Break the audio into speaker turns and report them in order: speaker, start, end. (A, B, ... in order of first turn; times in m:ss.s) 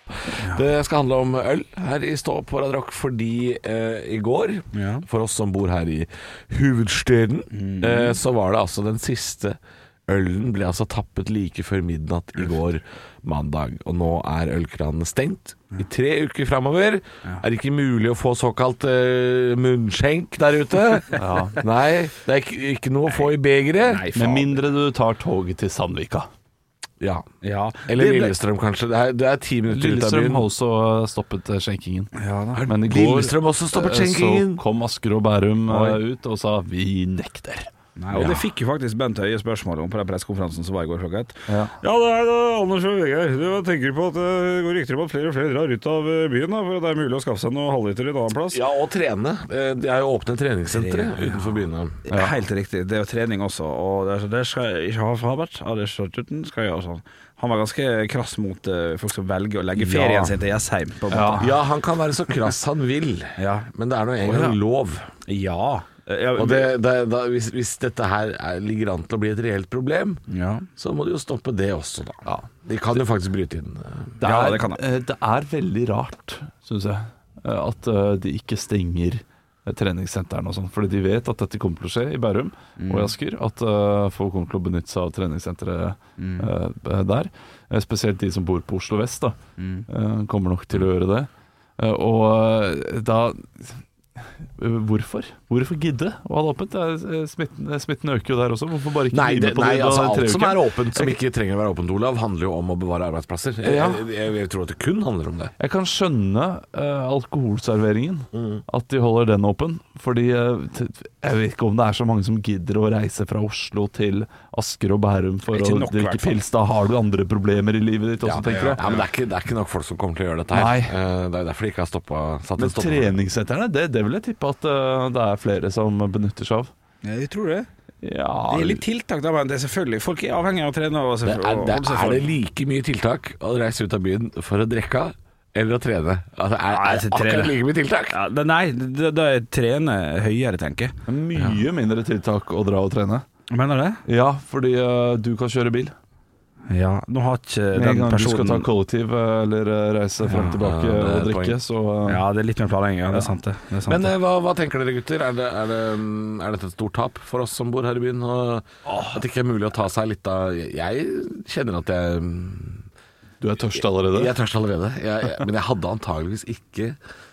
0:00.3-0:24.4 A
0:00.4-0:00.6 B
0:04.7-0:05.1 B
0:07.5-0:08.2 B
0:21.2-0:21.6 C
0:23.9-0:24.5 B
0:24.2-0:26.3 C
0:27.0-0:27.3 A
0:27.4-0:28.4 B
0:27.9-0:30.5 A
0:29.7-0:32.1 C
0:32.2-0:32.6 B
0:32.6-0:34.6 A
0:32.6-0:38.4 C
0:35.7-0:36.0 A
0:38.0-0:48.6 B
0:38.1-0:38.4 A
0:41.5-0:41.8 C
0:48.5-0:52.1 A
0:50.7-0:51.4 B
0:52.1-1:01.5 B
0:59.8-1:00.3 A
1:01.1-1:01.5 C
1:01.4-1:05.1 A
1:03.4-1:03.7 B
1:04.3-1:04.6 C
1:05.3-1:06.8 B
1:06.4-1:10.2 A
1:10.3-1:10.7 B
1:10.8-1:14.2 A
1:14.2-1:14.8 B
1:14.2-1:33.8 C
1:22.8-1:23.1 B
1:26.2-1:26.5 B
1:29.6-1:29.9 B
1:34.4-1:41.2 C
1:39.1-1:45.5 A
1:43.6-1:44.0 C
1:45.6-1:58.9 C
1:48.3-1:48.6 A
1:55.5-1:56.4 B
1:58.2-2:03.2 A
1:58.4-1:59.0 B
2:00.5-2:00.9 C
2:02.6-2:06.7 C
2:07.0-2:07.7 B
2:08.0-2:08.8 C
2:08.5-2:12.3 B
2:11.2-2:18.2 A
2:16.7-2:17.6 B
2:18.1-2:21.0 B
2:21.1-2:23.2 C
2:21.4-2:21.6 A
2:23.5-2:24.0 B
2:24.1-2:25.9 C
2:26.7-2:28.7 B
2:27.8-2:32.2 C
2:30.3-2:30.6 B
2:30.6-2:31.6 A
2:32.1-2:34.1 B
2:33.9-2:42.9 A
2:38.9-2:39.2 B
2:43.4-2:44.4 C
2:43.8-2:47.0 A